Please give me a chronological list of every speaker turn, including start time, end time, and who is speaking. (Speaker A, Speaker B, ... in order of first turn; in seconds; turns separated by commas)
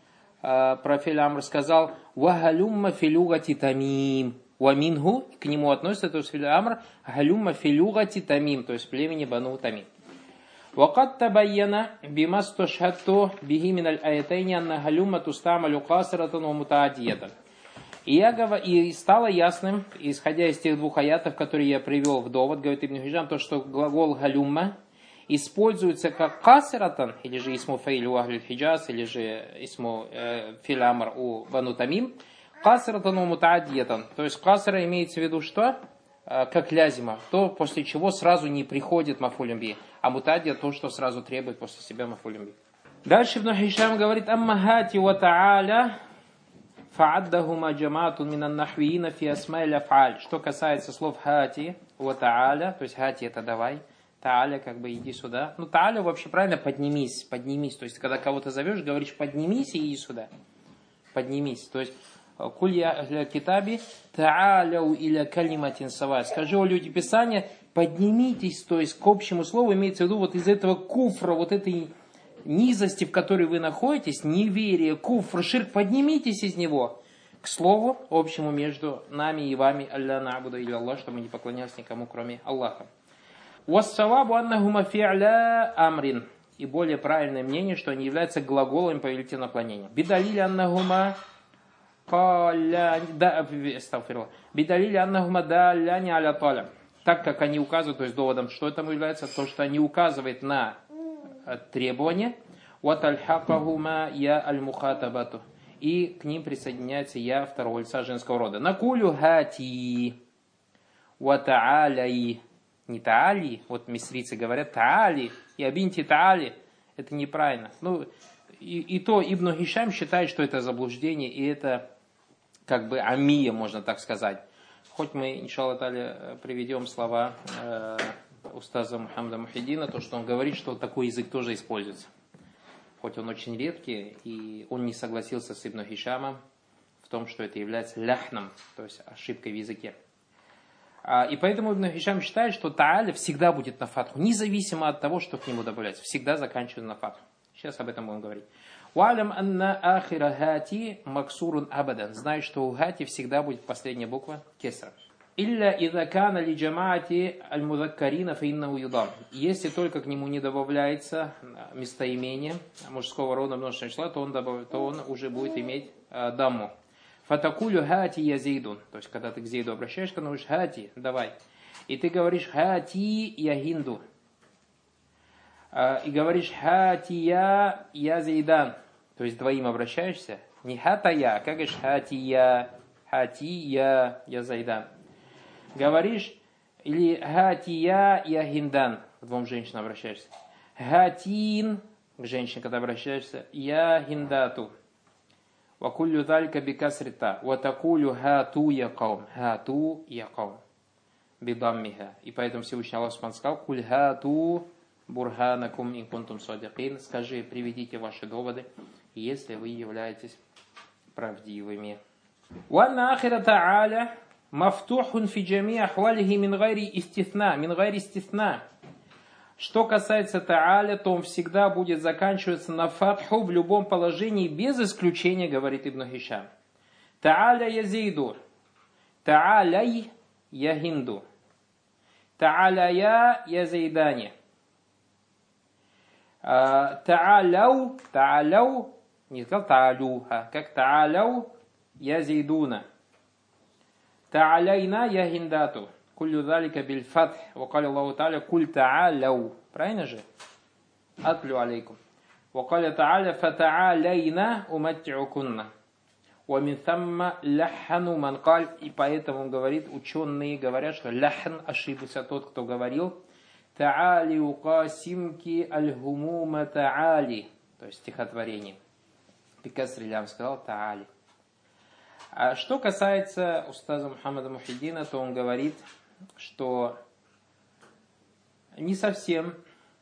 Speaker A: 0.4-9.9, Speaker A: 10.8-17.3, Speaker A: 18.1-24.7, Speaker A: 25.3-35.8, Speaker A: 36.3-42.5, Speaker A: 43.0-45.9, Speaker A: 46.9-60.3, Speaker A: 61.1-71.9, Speaker A: 72.4-82.9, Speaker A: 83.7-91.2, Speaker A: 92.1-100.8, Speaker A: 101.4-110.1, Speaker A: 111.2-118.1, Speaker A: 118.6-121.8, Speaker A: 122.7-124.4, Speaker A: 124.9-132.1, Speaker A: 133.0-136.4, Speaker A: 137.0-139.9, Speaker A: 141.0-166.7, Speaker A: 167.2-171.3, Speaker A: 171.9-174.0, Speaker A: 175.7-184.9, Speaker A: 185.8-194.7, Speaker A: 195.8-200.6, Speaker A: 201.4-210.4, Speaker A: 211.1-212.0, Speaker A: 212.7-218.6, Speaker A: 219.6-226.5, Speaker A: 227.2-228.4, Speaker A: 229.2-231.2, Speaker A: 232.4-234.3, Speaker A: 236.4-242.8, Speaker A: 244.3-250.2, Speaker A: 251.2-252.0, Speaker A: 252.5-255.7, Speaker A: 256.5-263.1, Speaker A: 263.7-268.8, Speaker A: 269.6-271.1, Speaker A: 272.3-275.8, Speaker A: 276.4-276.9, Speaker A: 278.8-279.6